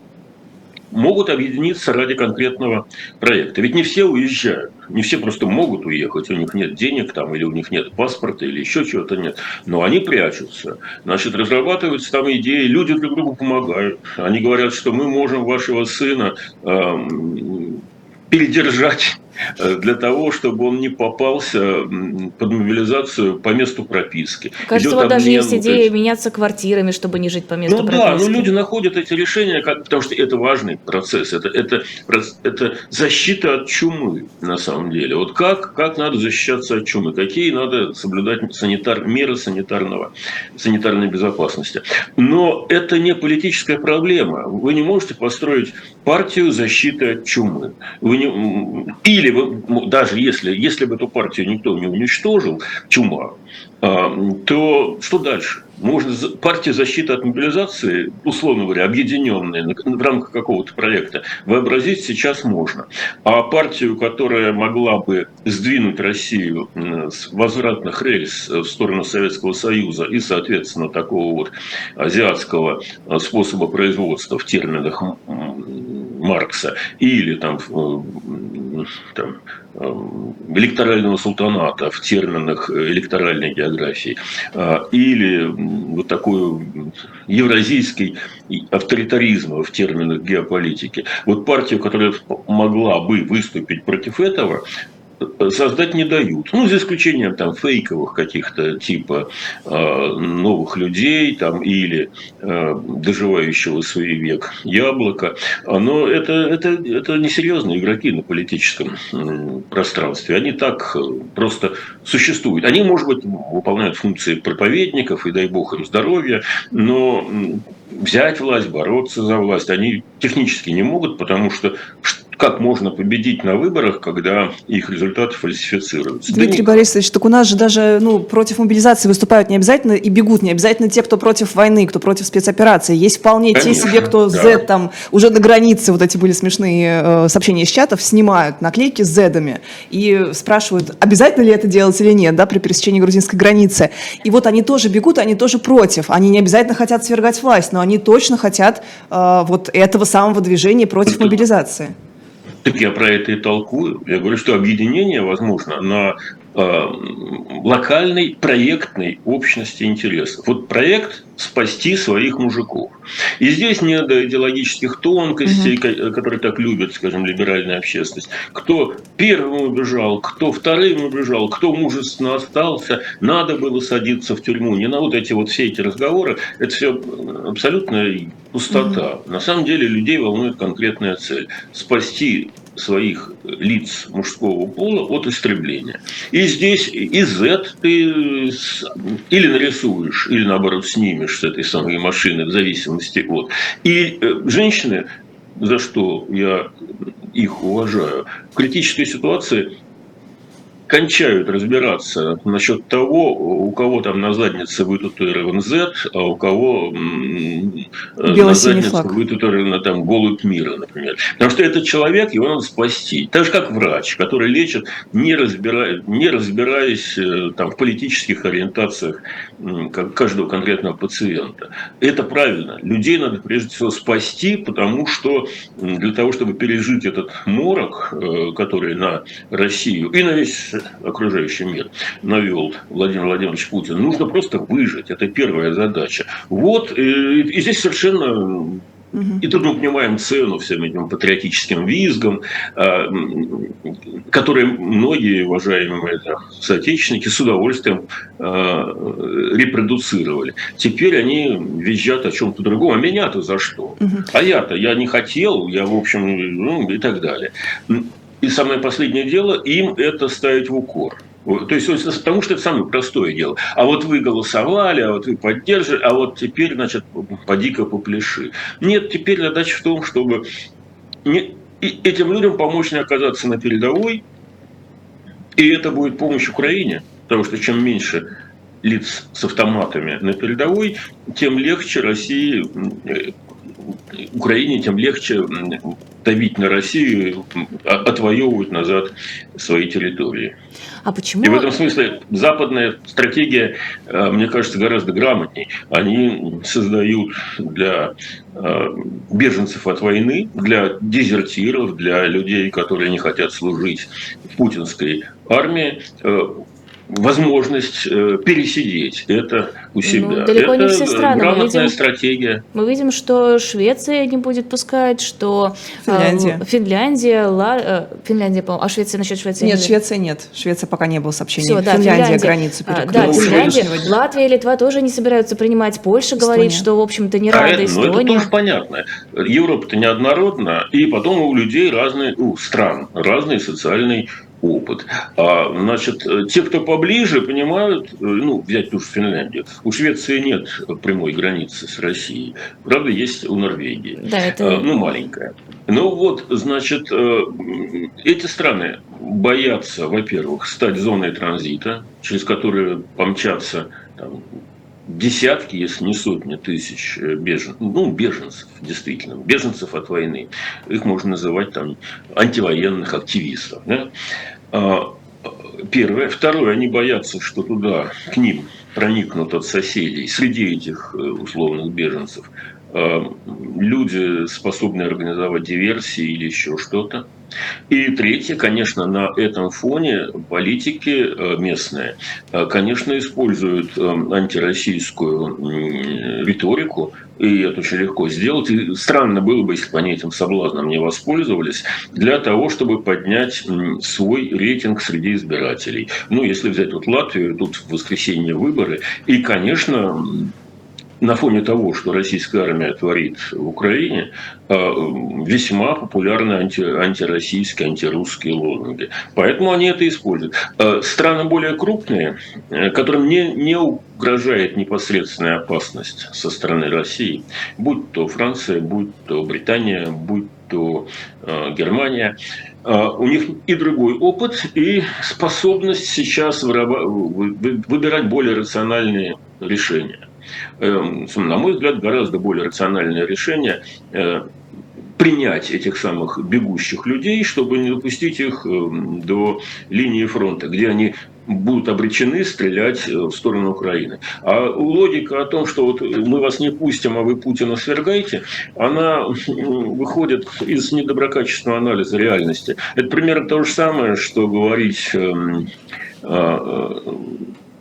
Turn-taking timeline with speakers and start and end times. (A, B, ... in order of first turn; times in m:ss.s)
0:00.9-0:25.9 A
0:24.6-0:28.5 B
0:27.7-1:34.6 A
1:35.2-2:06.8 A
2:06.3-2:31.9 C
2:13.5-2:14.6 A
2:31.1-2:31.4 A
2:32.6-3:16.7 A
2:45.5-2:45.7 C
2:58.7-2:59.0 C
3:17.3-3:19.7 A
3:20.9-3:58.8 A
3:28.3-3:29.2 C
3:59.1-3:59.4 C
3:59.4-4:30.4 A
4:31.2-4:34.2 A
4:35.6-4:38.3 A
4:38.8-4:43.3 A
4:44.1-4:50.5 A
4:51.0-4:51.7 B
4:51.4-5:12.6 A
5:10.0-5:12.0 B
5:12.7-5:20.0 B
5:16.0-5:16.6 C
5:19.6-5:24.1 C
5:21.6-5:28.5 B
5:23.1-5:23.9 A
5:26.4-5:26.9 C
5:27.5-5:54.5 A
5:44.2-5:44.9 B
5:55.1-6:04.1 A
6:04.7-6:17.3 A
6:17.9-6:40.5 A
6:41.2-7:10.3 A
7:10.8-7:14.5 A
7:15.2-7:35.7 A
7:36.2-7:37.5 A